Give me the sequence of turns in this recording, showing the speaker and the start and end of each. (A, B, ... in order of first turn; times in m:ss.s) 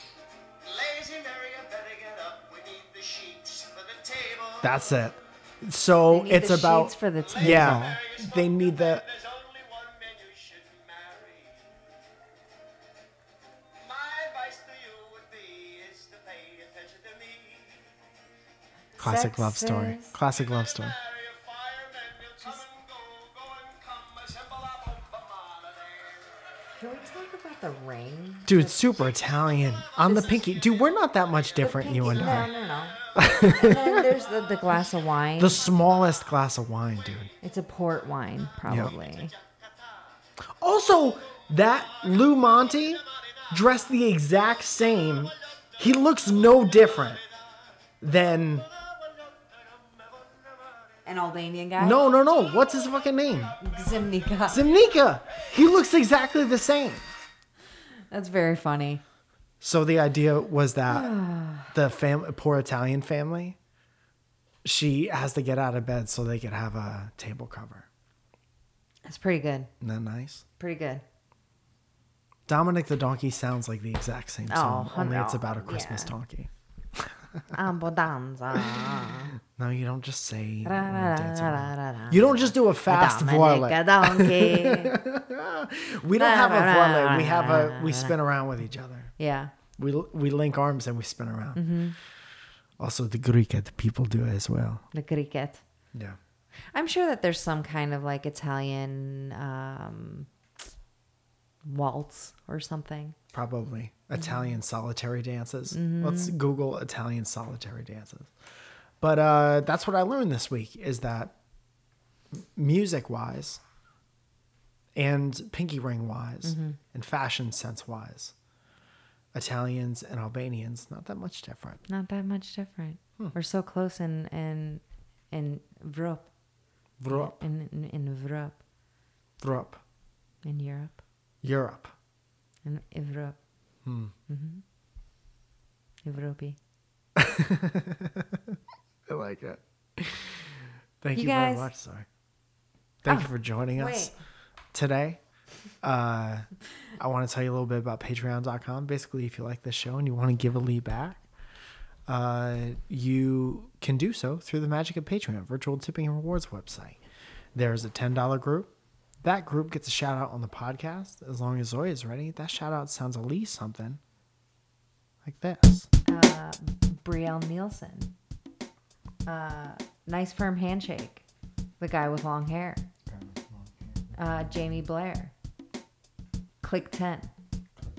0:00.6-0:04.8 A
0:04.6-0:09.0 B
0:06.1-0:07.9 C
0:07.2-0:11.9 A
0:13.8-0:18.0 A
0:19.0-0:20.2 C
0:19.0-0:21.0 B
0:20.3-0:26.4 A
0:26.8-0:28.8 C
0:28.5-0:32.5 B
0:28.8-0:33.3 A
0:30.0-0:30.3 C
0:31.6-0:35.6 C
0:33.2-0:34.1 B
0:33.9-0:34.6 A
0:35.4-0:37.3 B
0:37.4-0:39.3 C
0:38.7-0:39.0 B
0:39.0-0:40.2 A
0:40.6-0:47.2 B
0:41.3-0:43.7 A
0:45.6-0:47.6 A
0:48.0-0:48.7 B
0:48.6-0:51.0 A
0:51.0-0:52.1 C
0:51.8-0:53.6 B
0:52.5-0:55.5 A
0:53.6-0:54.6 C
0:54.5-0:57.1 B
0:58.1-0:59.0 C
0:59.6-1:01.1 B
1:00.9-1:01.8 C
1:01.7-1:03.6 B
1:04.6-1:07.9 B
1:09.0-1:09.7 C
1:09.8-1:10.4 B
1:10.6-1:11.0 C
1:12.5-1:17.6 B
1:14.5-1:16.2 C
1:17.5-1:19.4 C
1:18.5-1:29.1 B
1:20.6-1:25.0 C
1:26.1-1:28.2 C
1:29.2-1:29.5 C
1:29.8-1:31.8 B
1:31.6-1:32.0 C
1:32.8-1:34.9 B
1:34.9-1:35.6 C
1:35.9-1:36.2 B
1:36.7-1:40.3 C
1:41.6-1:43.2 C
1:43.3-1:48.3 B
1:44.2-1:44.5 C
1:45.7-1:46.4 C
1:49.0-1:51.3 B
1:52.3-1:53.6 B
1:55.0-1:58.4 B
1:56.4-1:56.8 C
1:59.3-2:01.8 B
2:01.9-2:06.3 C
2:07.0-2:07.4 B
2:07.1-2:08.6 C
2:09.4-2:09.8 B
2:10.4-2:11.0 C
2:11.4-2:12.0 B
2:12.6-2:13.4 C
2:13.8-2:14.2 B
2:14.3-2:14.6 C
2:16.0-2:16.6 C
2:17.2-2:22.1 B
2:21.2-2:21.7 C
2:23.0-2:24.1 B
2:23.1-2:24.2 C
2:24.7-2:25.2 B
2:25.8-2:31.2 B
2:32.1-2:37.0 B
2:37.6-2:44.0 B
2:45.2-2:45.9 B
2:46.1-2:48.1 C
2:49.3-2:51.2 C
2:51.8-2:52.8 C
2:53.1-2:53.9 B
2:54.1-2:55.3 C
2:56.6-2:57.3 C